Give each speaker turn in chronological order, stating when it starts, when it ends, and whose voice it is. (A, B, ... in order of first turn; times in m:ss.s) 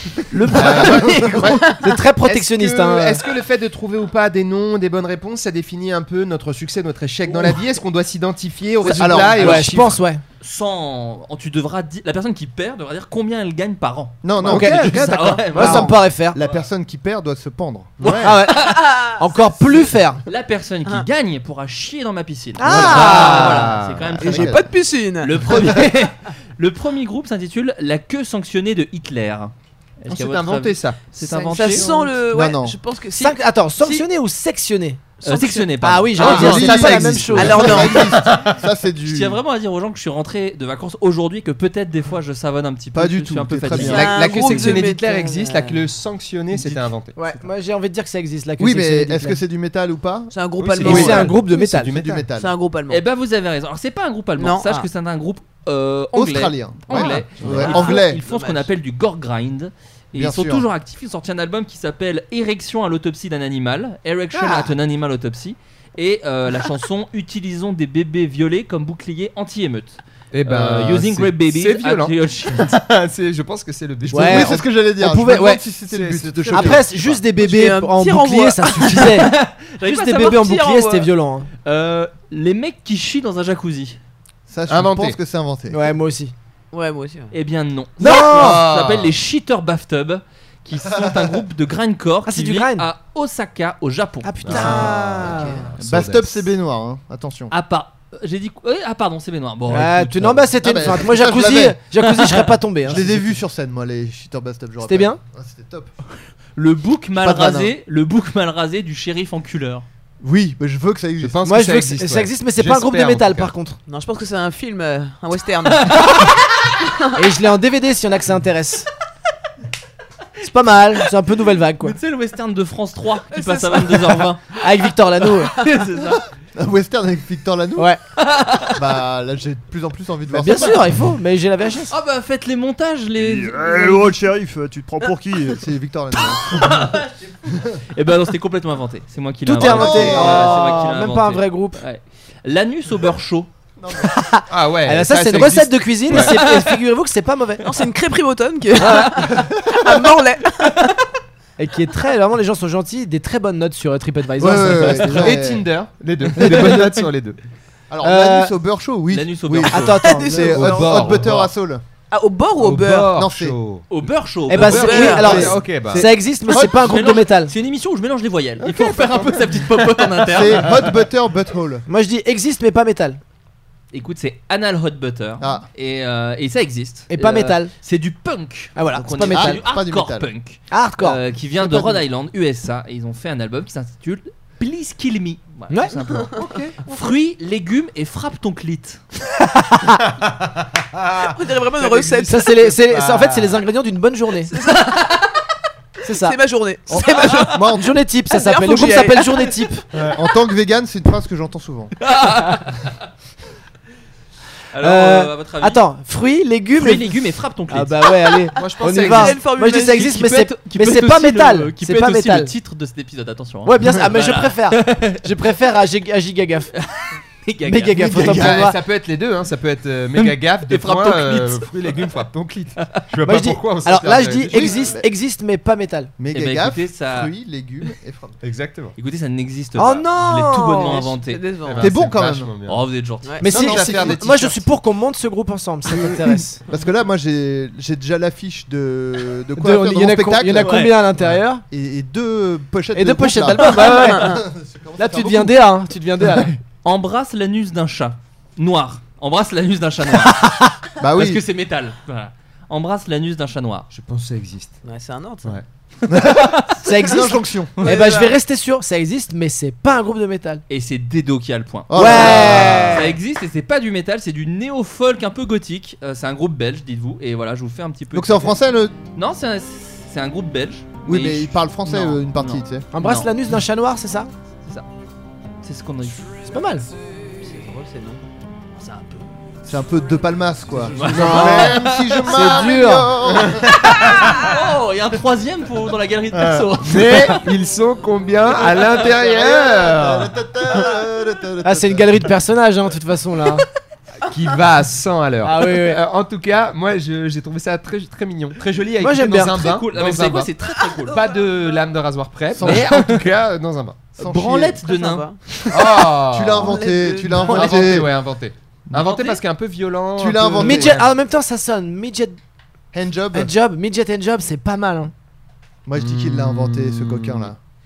0:00.3-0:01.6 A
0:00.5-0:01.6 B
0:00.7-0:01.4 C
0:01.8-0:03.2 D
0:02.2-0:10.0 B
0:08.8-0:09.7 C
0:09.3-0:10.2 D
0:10.4-0:15.9 A
0:14.2-0:18.4 C
0:14.4-0:15.9 B
0:14.5-0:14.8 D
0:15.5-0:16.4 D
0:18.0-0:18.8 A
0:18.2-0:20.2 D
0:18.6-0:19.2 E
0:20.2-0:24.6 A
0:22.6-0:23.7 D
0:22.6-0:24.4 B
0:22.7-0:23.2 C
0:24.2-0:25.8 E
0:24.2-0:24.6 C
0:25.2-0:31.9 A
0:30.1-0:31.7 B
0:31.3-0:34.1 E
0:31.8-0:32.8 C
0:33.1-0:37.9 D
0:35.2-0:36.6 A
0:36.2-0:39.4 C
0:36.2-0:37.9 B
0:36.3-0:38.3 E
0:39.0-0:44.1 A
0:42.9-0:44.2 C
0:43.7-0:47.2 B
0:43.8-0:45.8 E
0:47.1-0:49.4 D
0:48.6-0:52.5 C
0:50.3-0:51.4 E
0:50.6-0:52.3 B
0:50.8-0:51.9 D
0:52.3-0:53.0 E
0:52.9-1:12.8 A
0:54.4-0:54.8 E
0:56.1-0:58.2 C
0:56.9-0:57.7 B
0:57.6-0:58.7 E
1:00.1-1:00.6 C
1:04.3-1:04.7 B
1:10.3-1:14.6 B
1:14.1-1:15.6 D
1:14.1-1:16.8 C
1:15.9-1:17.2 B
1:16.5-1:21.5 D
1:17.4-1:19.2 E
1:19.0-1:20.4 A
1:20.2-1:21.1 E
1:21.6-1:24.0 A
1:24.5-1:25.9 C
1:24.7-1:25.2 B
1:25.7-1:26.3 D
1:26.7-1:27.3 E
1:27.3-1:35.4 A
1:28.0-1:28.6 D
1:28.0-1:29.1 B
1:30.8-1:31.3 C
1:32.2-1:32.9 D
1:34.2-1:35.6 D
1:34.4-1:36.4 B
1:35.8-1:37.5 C
1:37.5-1:40.5 A
1:39.7-1:43.3 D
1:40.6-1:41.8 C
1:42.0-1:42.5 A
1:42.8-1:45.9 C
1:44.8-1:45.2 D
1:46.6-1:49.8 A
1:47.2-1:47.7 C
1:50.2-1:51.4 C
1:51.2-1:53.5 B
1:51.4-1:53.8 D
1:53.9-1:56.3 E
1:55.8-1:56.3 A
1:56.8-1:57.2 E
1:57.1-1:58.9 D
2:00.4-2:02.0 D
2:01.8-2:04.4 A
2:03.3-2:04.3 E
2:04.6-2:05.5 D
2:05.5-2:06.2 A
2:06.6-2:08.0 C
2:08.2-2:08.8 A
2:08.7-2:10.9 C
2:10.3-2:11.9 D
2:11.9-2:14.2 A
2:13.2-2:15.6 F
2:15.6-2:16.8 C
2:16.4-2:23.5 A
2:19.4-2:21.8 D
2:19.5-2:20.7 C
2:23.8-2:24.2 C
2:24.0-2:27.7 D
2:24.5-2:26.4 B
2:27.6-2:30.9 E
2:29.7-2:30.0 C
2:31.6-2:35.4 D
2:34.4-2:35.7 C
2:34.8-2:37.4 B
2:36.4-2:37.0 D
2:37.9-2:41.8 C
2:38.0-2:38.5 D
2:39.1-2:40.0 A
2:39.7-2:40.7 D
2:39.8-2:41.3 E
2:40.5-2:41.5 B
2:42.1-2:43.2 E
2:42.6-2:43.8 B
2:43.1-2:43.6 C
2:43.9-2:45.5 A
2:44.5-2:47.5 D
2:44.6-2:46.1 B
2:44.6-2:45.4 E
2:45.0-2:47.0 C
2:46.5-2:50.7 A
2:48.9-2:49.2 B
2:50.3-2:51.8 C
2:51.9-2:53.2 D
2:53.9-3:09.0 A
2:55.4-2:55.6 C
2:57.1-2:57.7 D
2:58.8-2:59.6 D
2:59.0-3:00.3 C
3:00.7-3:02.0 D
3:06.4-3:06.8 B
3:09.5-3:10.0 D
3:10.2-3:13.6 B
3:11.3-3:12.6 E
3:12.3-3:14.5 D
3:14.5-3:15.1 E
3:16.0-3:19.8 D
3:16.1-3:17.6 E
3:17.4-3:17.9 C
3:18.3-3:19.6 E
3:19.9-3:20.2 B
3:20.1-3:21.9 C
3:22.0-3:23.1 A
3:24.7-3:25.8 A
3:24.8-3:27.2 D
3:26.7-3:28.4 A
3:27.7-3:32.5 D
3:28.6-3:29.4 B
3:28.8-3:30.1 E
3:29.6-3:35.2 A
3:33.6-3:36.7 D
3:36.7-3:38.7 A
3:37.6-3:38.8 D
3:38.3-3:44.9 B
3:40.2-3:42.1 A
3:43.2-3:46.1 D
3:44.5-3:45.0 C
3:46.2-3:48.4 C
3:46.3-3:47.3 A
3:48.4-3:48.9 B
3:49.0-3:51.4 A
3:49.8-3:51.1 D
3:51.0-3:52.0 E
3:51.6-3:52.8 B
3:51.8-3:52.5 C
3:52.6-3:53.4 A
3:53.4-3:56.6 D
3:53.4-3:54.7 B
3:53.5-3:54.2 C
3:56.7-4:05.6 C
3:59.6-4:01.6 D
4:00.6-4:00.9 A
4:02.9-4:04.4 D
4:03.8-4:04.4 E
4:05.0-4:06.5 D
4:06.8-4:13.9 A
4:10.4-4:10.6 D
4:11.0-4:11.4 C
4:13.9-4:14.8 B
4:14.8-4:15.5 E
4:16.1-4:17.8 C
4:16.4-4:16.6 A
4:16.8-4:20.6 D
4:17.8-4:18.3 E
4:20.7-4:28.6 A
4:21.9-4:23.0 C
4:21.9-4:23.1 D
4:28.1-4:28.9 C
4:29.1-4:33.3 A
4:31.0-4:32.8 C
4:32.9-4:34.3 D
4:35.6-4:36.3 A
4:36.4-4:36.9 D
4:37.4-4:38.2 E
4:38.8-4:39.3 A
4:39.6-4:43.9 C
4:40.9-4:42.3 A
4:41.0-4:41.9 B
4:41.1-4:41.7 D
4:42.3-4:43.1 D
4:43.3-4:44.3 B
4:43.6-4:47.5 A
4:46.3-4:50.8 B
4:48.6-4:52.2 C
4:51.6-4:53.6 D
4:54.2-5:00.5 B
4:55.4-4:56.0 D
4:59.0-4:59.6 D
4:59.5-5:01.2 A
5:01.1-5:04.0 B
5:02.5-5:02.9 C
5:02.6-5:03.2 A
5:04.2-5:04.8 C
5:04.2-5:06.1 A
5:04.8-5:05.4 E
5:05.7-5:11.1 B
5:06.2-5:08.1 C
5:06.6-5:07.8 E
5:08.9-5:09.4 A
5:10.2-5:11.0 C
5:10.6-5:12.4 D
5:12.9-5:13.5 C
5:13.3-5:15.1 D
5:15.8-5:17.6 C
5:15.9-5:17.5 B